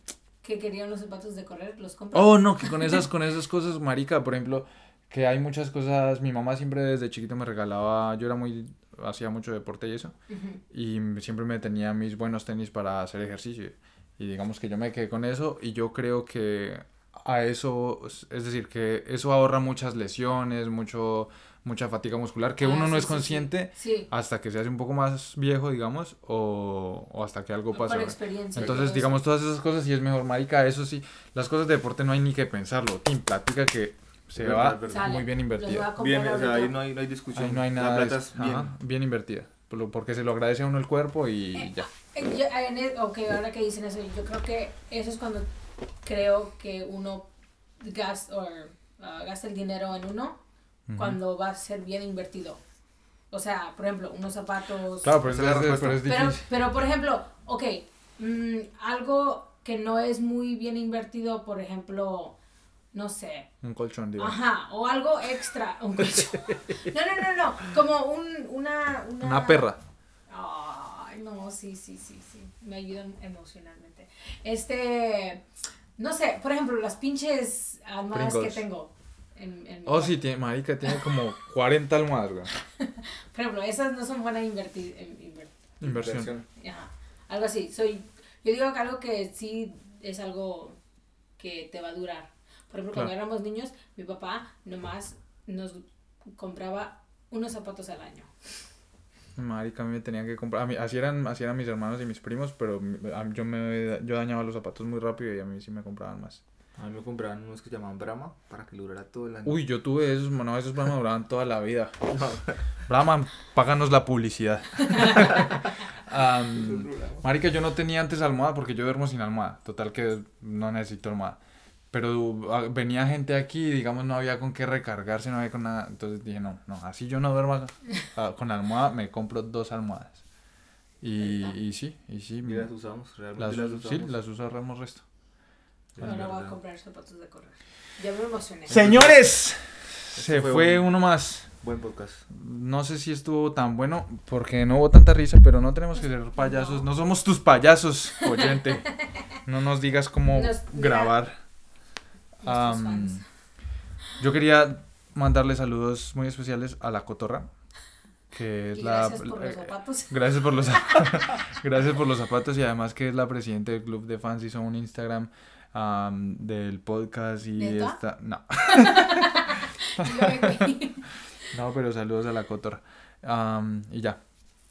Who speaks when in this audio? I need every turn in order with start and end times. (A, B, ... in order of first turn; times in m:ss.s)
0:00.4-0:03.0 A
0:02.1-0:10.1 B
0:10.3-0:10.6 A
0:10.7-0:35.9 B
0:22.6-0:24.1 A
0:27.7-0:29.2 A
0:34.4-0:35.2 C
0:34.9-0:36.8 A
0:36.0-0:38.7 C
0:37.4-0:41.9 B
0:41.6-0:45.5 A
0:46.0-0:47.3 A
0:47.8-0:50.4 A
0:50.9-0:51.2 B
0:51.0-0:52.6 A
0:53.3-0:55.2 A
0:55.0-0:56.5 B
0:55.2-0:56.0 C
0:56.0-1:02.4 A
1:02.9-1:03.5 A
1:03.6-1:04.4 B
1:04.2-1:09.7 A
1:06.1-1:06.4 B
1:09.2-1:09.8 B
1:10.3-1:15.4 A
1:16.0-1:20.2 A
1:18.1-1:18.6 B
1:19.9-1:22.5 B
1:22.8-1:25.6 A
1:25.8-1:26.4 C
1:25.8-1:26.3 B
1:26.6-1:30.8 A
1:31.4-1:35.8 A
1:36.4-1:38.3 A
1:39.4-1:46.4 B
1:46.8-1:49.6 C
1:49.5-1:52.3 B
1:52.1-1:52.6 C
1:52.9-1:55.5 B
1:55.2-1:55.5 C
1:56.1-2:01.4 B
1:56.5-1:57.2 C
2:01.9-2:10.2 B
2:11.0-2:12.7 B
2:11.2-2:11.5 A
2:12.4-2:14.1 C
2:13.4-2:15.0 B
2:16.0-2:16.6 C
2:16.0-2:18.8 A
2:18.7-2:21.5 B
2:18.7-2:19.2 C
2:20.1-2:21.0 C
2:21.6-2:22.2 C
2:22.3-2:28.9 B
2:26.4-2:26.9 A
2:28.3-2:29.2 A
2:29.5-2:31.4 B
2:30.3-2:31.2 A
2:32.4-2:33.2 B
2:32.4-2:33.2 A
2:34.2-2:37.5 B
2:38.3-2:50.8 B
2:38.7-2:40.3 A
2:47.6-2:48.0 A
2:48.6-2:51.1 A
2:51.5-2:54.2 B